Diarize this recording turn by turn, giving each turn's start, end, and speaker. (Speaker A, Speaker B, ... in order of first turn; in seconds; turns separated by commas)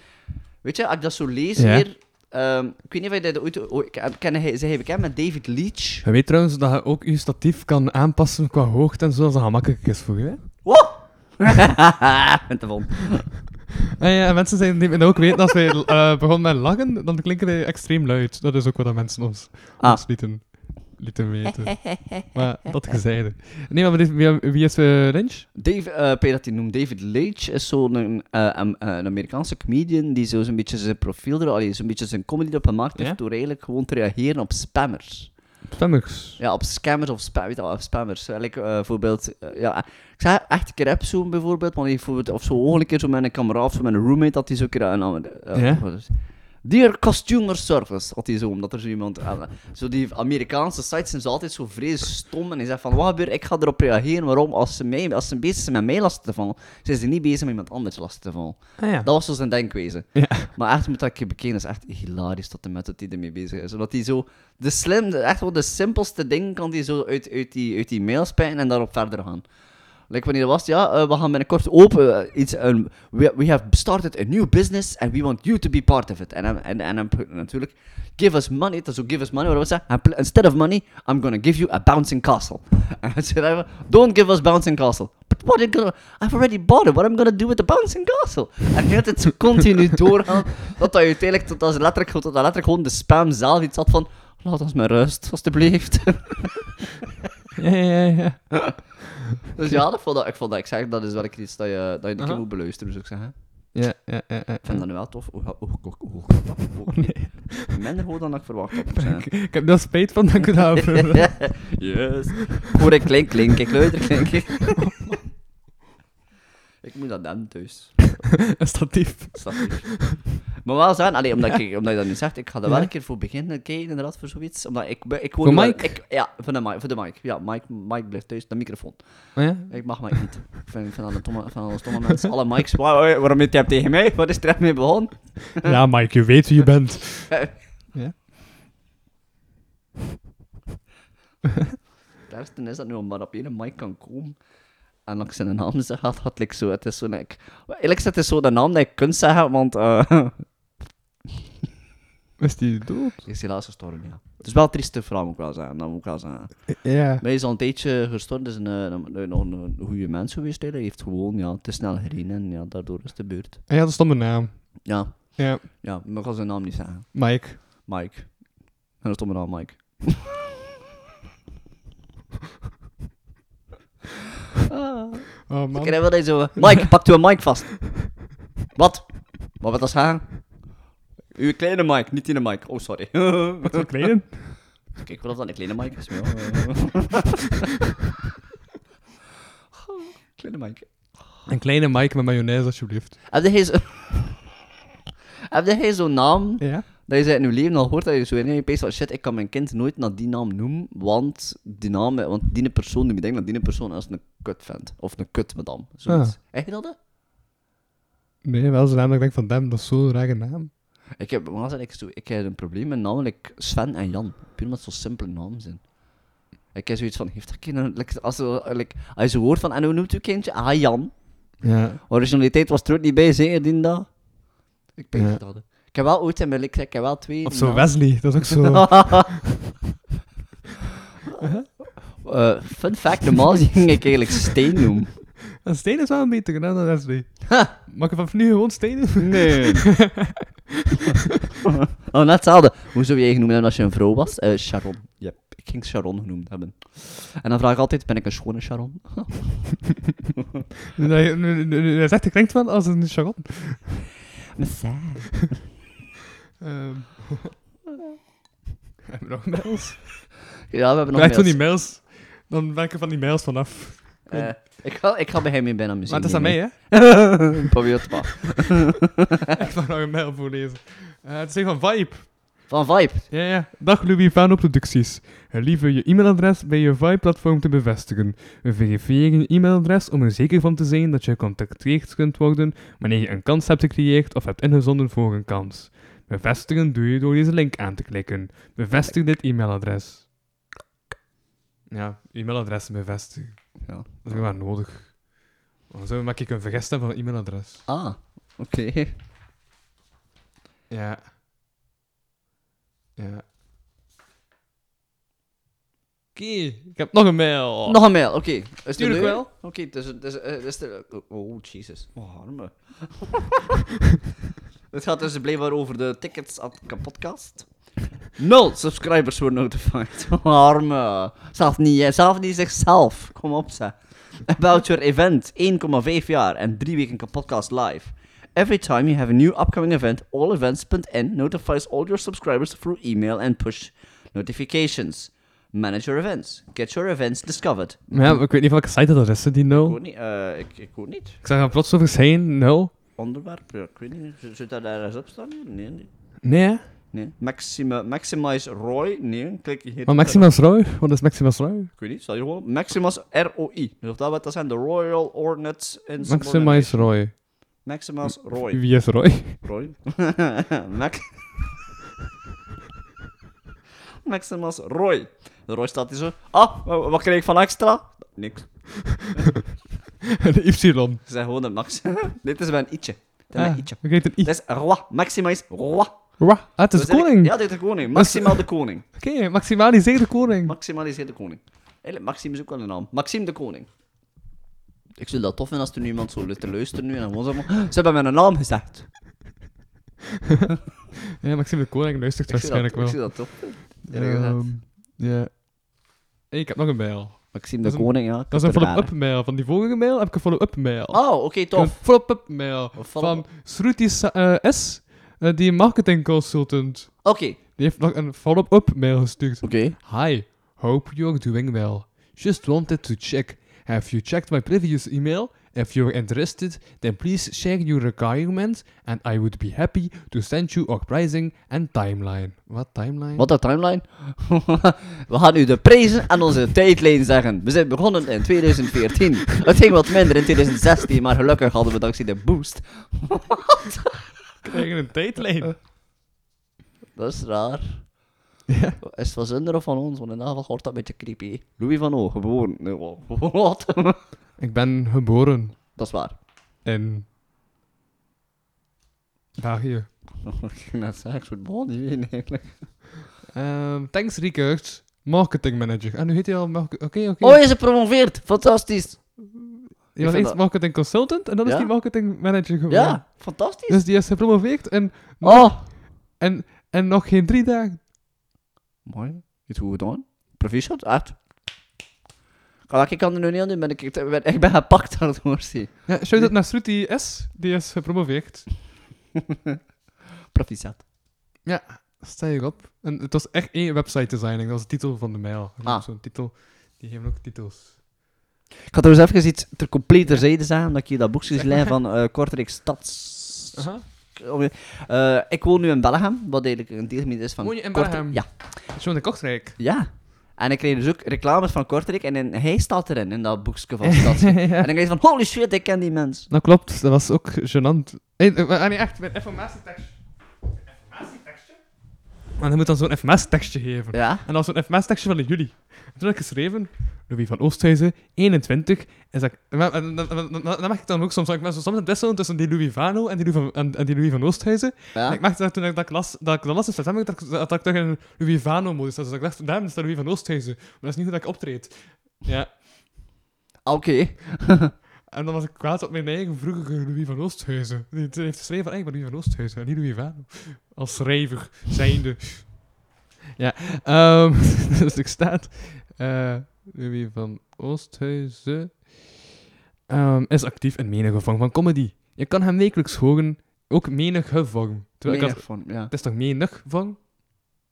Speaker A: 0.6-6.0, Speaker B: 1.6-1.9, Speaker B: 6.0-10.7, Speaker A: 10.6-13.3, Speaker B: 14.0-25.5, Speaker A: 19.8-20.6, Speaker A: 25.5-35.3, Speaker B: 35.7-36.4, Speaker A: 36.4-69.4, Speaker B: 45.5-45.8, Speaker B: 58.8-59.1, Speaker B: 60.1-60.5, Speaker A: 70.1-96.7, Speaker B: 97.5-98.9, Speaker A: 99.5-103.3, Speaker B: 103.7-104.8, Speaker A: 104.6-109.3, Speaker B: 106.9-107.8, Speaker B: 108.9-111.8, Speaker A: 110.8-114.9, Speaker B: 114.8-115.2, Speaker A: 116.8-118.2, Speaker B: 118.5-120.2, Speaker A: 119.3-135.7, Speaker B: 125.4-126.0, Speaker B: 129.3-130.2, Speaker B: 135.6-138.1, Speaker A: 142.3-144.4, Speaker A: 145.1-150.5, Speaker B: 152.4-153.2, Speaker A: 153.2-163.6, Speaker B: 156.8-157.2, Speaker B: 163.7-165.6, Speaker A: 164.8-170.3, Speaker B: 167.1-167.6, Speaker A: 174.7-178.2, Speaker B: 175.5-176.8, Speaker A: 178.7-180.7, Speaker A: 181.3-183.9, Speaker B: 183.6-184.6, Speaker A: 184.9-187.6, Speaker A: 189.8-191.2, Speaker B: 191.5-193.2, Speaker A: 193.3-194.5, Speaker A: 195.5-206.9, Speaker B: 196.6-196.8, Speaker B: 206.1-206.3, Speaker B: 208.4-210.7, Speaker A: 211.2-215.9, Speaker A: 216.7-224.2, Speaker B: 221.6-222.0, Speaker A: 224.9-229.4, Speaker B: 225.1-225.4, Speaker B: 227.4-229.4, Speaker B: 231.4-231.7, Speaker A: 232.1-235.2, Speaker B: 235.6-240.9, Speaker A: 239.2-239.9, Speaker A: 242.1-250.0, Speaker B: 250.9-254.0, Speaker A: 254.6-255.6, Speaker B: 256.6-257.5, Speaker B: 259.1-260.3, Speaker A: 260.7-261.6, Speaker B: 261.1-264.5, Speaker A: 264.3-268.9, Speaker B: 266.1-267.5, Speaker B: 269.6-272.7, Speaker A: 272.7-273.3, Speaker B: 273.3-290.3, Speaker B: 291.9-295.3, Speaker A: 293.8-294.5, Speaker B: 295.9-297.9, Speaker A: 297.9-299.1, Speaker B: 300.9-301.3, Speaker B: 303.2-303.4, Speaker B: 306.3-308.1, Speaker A: 307.9-313.8, Speaker B: 308.9-309.5, Speaker A: 314.9-317.7, Speaker A: 318.3-338.4, Speaker B: 338.1-340.0, Speaker A: 339.8-341.4, Speaker B: 341.4-342.9, Speaker A: 343.2-346.3, Speaker B: 346.4-346.8, Speaker A: 347.1-350.5, Speaker B: 350.1-351.9, Speaker A: 352.0-361.5, Speaker B: 356.2-357.4, Speaker B: 358.4-359.6, Speaker A: 364.2-369.5, Speaker B: 370.4-371.2, Speaker A: 371.2-379.0, Speaker B: 373.5-374.5, Speaker B: 376.4-380.7, Speaker A: 380.6-383.9, Speaker A: 385.2-389.1, Speaker B: 391.4-395.7, Speaker A: 392.5-394.6, Speaker B: 396.5-423.5, Speaker A: 397.5-399.1, Speaker A: 401.1-403.4, Speaker A: 407.2-407.6, Speaker A: 409.6-410.0, Speaker A: 423.4-434.1, Speaker B: 434.6-435.7, Speaker A: 437.1-438.2, Speaker B: 438.7-439.0, Speaker A: 439.0-444.2, Speaker B: 444.6-446.0, Speaker A: 445.9-446.4, Speaker B: 446.8-447.3, Speaker B: 449.6-450.1, Speaker A: 450.4-453.0, Speaker B: 453.5-457.6, Speaker A: 457.4-459.5, Speaker B: 459.5-468.0, Speaker A: 460.2-460.6, Speaker A: 461.6-461.9, Speaker A: 462.9-464.0, Speaker A: 465.4-465.9, Speaker A: 469.0-471.4, Speaker A: 472.9-476.5, Speaker B: 476.1-478.7, Speaker A: 480.5-481.0, Speaker B: 481.6-488.0, Speaker A: 488.9-499.0, Speaker B: 491.6-491.9, Speaker B: 493.7-494.0, Speaker B: 497.6-499.8, Speaker A: 499.8-506.5, Speaker B: 504.0-504.9, Speaker B: 506.5-510.2, Speaker B: 511.1-511.7, Speaker B: 512.6-532.8, Speaker A: 514.1-514.4, Speaker A: 525.1-525.4, Speaker A: 533.8-534.9, Speaker B: 535.3-542.9, Speaker B: 543.5-549.4, Speaker B: 550.1-557.2, Speaker A: 555.2-556.1